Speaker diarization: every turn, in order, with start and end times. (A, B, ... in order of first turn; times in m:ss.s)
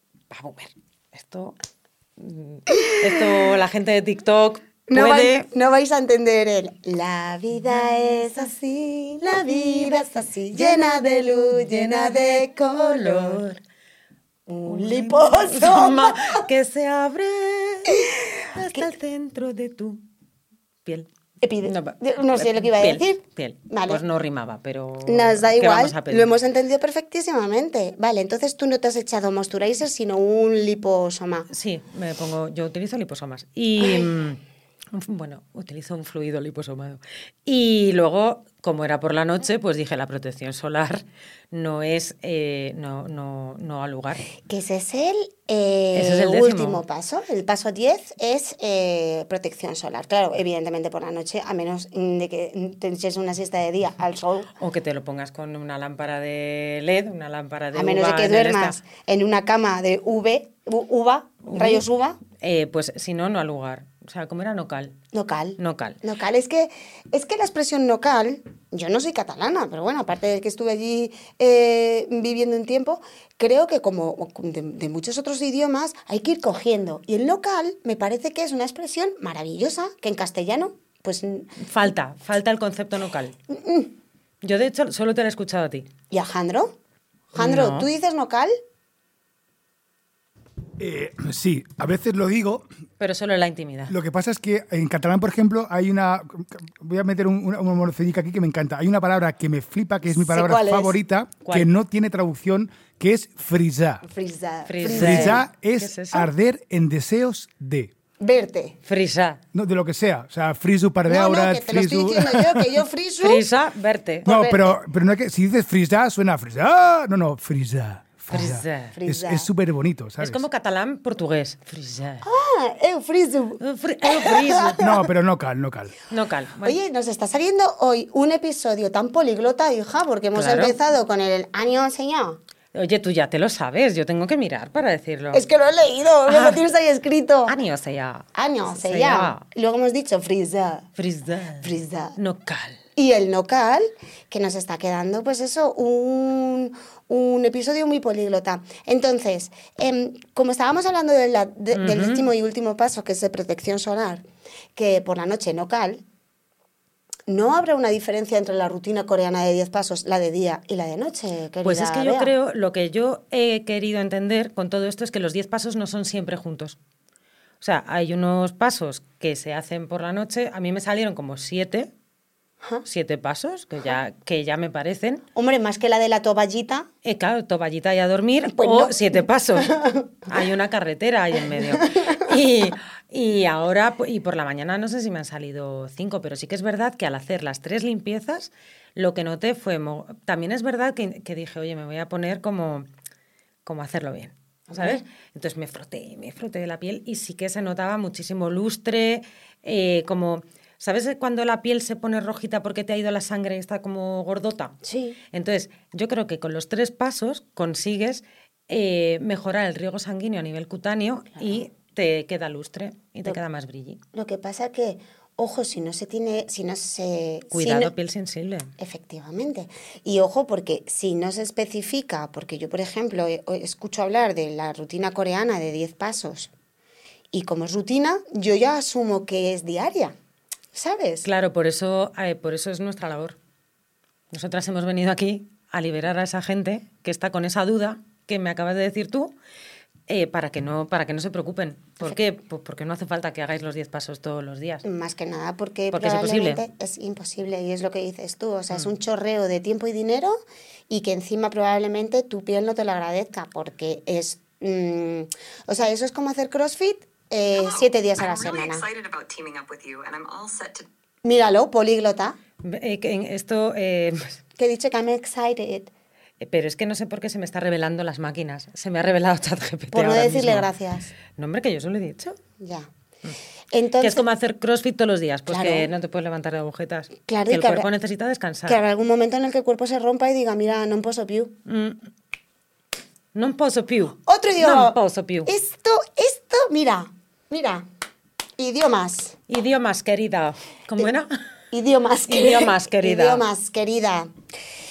0:00.3-0:01.6 A
0:02.2-0:05.5 A
0:04.9-0:13.4 B
0:10.6-0:13.6 A
0:14.5-0:16.4 B
0:14.6-0:20.0 A
0:21.4-0:24.0 B
0:21.6-0:26.3 A
0:25.1-0:31.5 B
0:31.5-0:44.2 A
0:33.8-0:34.1 B
0:44.4-0:54.5 B
0:45.9-0:46.8 A
0:54.6-0:58.8 A
0:57.7-1:02.2 B
1:01.4-1:05.0 A
1:05.1-1:21.6 B
1:05.6-1:06.0 A
1:21.6-1:23.3 A
1:23.5-1:23.9 B
1:24.4-1:25.9 A
1:26.1-1:26.8 B
1:27.3-1:28.5 B
1:27.4-1:27.9 A
1:30.8-1:32.6 C
1:33.0-1:33.9 A
1:33.9-1:44.0 C
1:40.0-1:41.0 B
1:41.4-1:41.7 A
1:44.0-1:45.4 B
1:44.6-1:46.3 A
1:44.8-1:47.9 C
1:48.2-1:48.8 B
1:48.8-1:49.4 A
1:49.5-1:52.8 C
1:51.1-1:53.4 B
1:53.2-1:54.3 A
1:54.2-1:54.7 B
1:54.2-2:00.4 C
1:58.3-1:59.0 A
1:59.0-1:59.5 B
2:00.2-2:02.3 A
2:02.2-2:05.0 B
2:03.6-2:04.8 A
2:04.8-2:06.0 C
2:06.1-2:06.8 A
2:06.6-2:12.4 B
2:10.3-2:10.8 A
2:12.7-2:15.4 A
2:15.3-2:17.5 B
2:16.3-2:16.6 A
2:17.5-2:19.4 A
2:18.3-2:20.9 B
2:21.0-2:22.8 A
2:21.6-2:22.2 B
2:23.0-2:34.2 B
2:31.7-2:32.2 A
2:34.7-2:36.0 B
2:37.3-2:42.3 B
2:41.6-2:46.8 A
2:47.6-2:51.9 A
2:52.8-2:55.2 A
2:55.3-2:56.9 B
2:57.0-3:12.9 A
2:58.5-3:00.1 B
3:01.8-3:02.2 B
3:13.6-3:24.8 A
3:14.7-3:15.0 B
3:24.8-3:25.2 B
3:25.3-3:34.0 A
3:34.1-3:37.9 B
3:37.5-3:38.7 A
3:38.8-3:46.5 B
3:47.3-3:50.1 B
3:50.7-3:51.2 B
3:51.2-3:53.4 A
3:54.3-3:59.3 A
4:00.1-4:04.8 A
4:04.8-4:18.8 B
4:05.9-4:06.6 A
4:17.5-4:20.8 D
4:21.2-4:22.4 B
4:22.6-4:24.4 A
4:24.6-4:25.9 B
4:26.4-4:30.7 A
4:29.9-4:31.1 B
4:31.3-4:32.4 A
4:32.6-4:32.9 B
4:33.7-4:34.2 B
4:34.0-4:38.8 A
4:35.5-4:35.9 B
4:37.2-4:37.9 B
4:38.7-4:41.6 B
4:41.6-4:42.0 A
4:43.3-4:45.5 A
4:44.3-4:47.8 B
4:48.6-4:49.4 B
4:49.5-4:51.3 A
4:51.7-4:54.3 B
4:52.3-4:53.4 A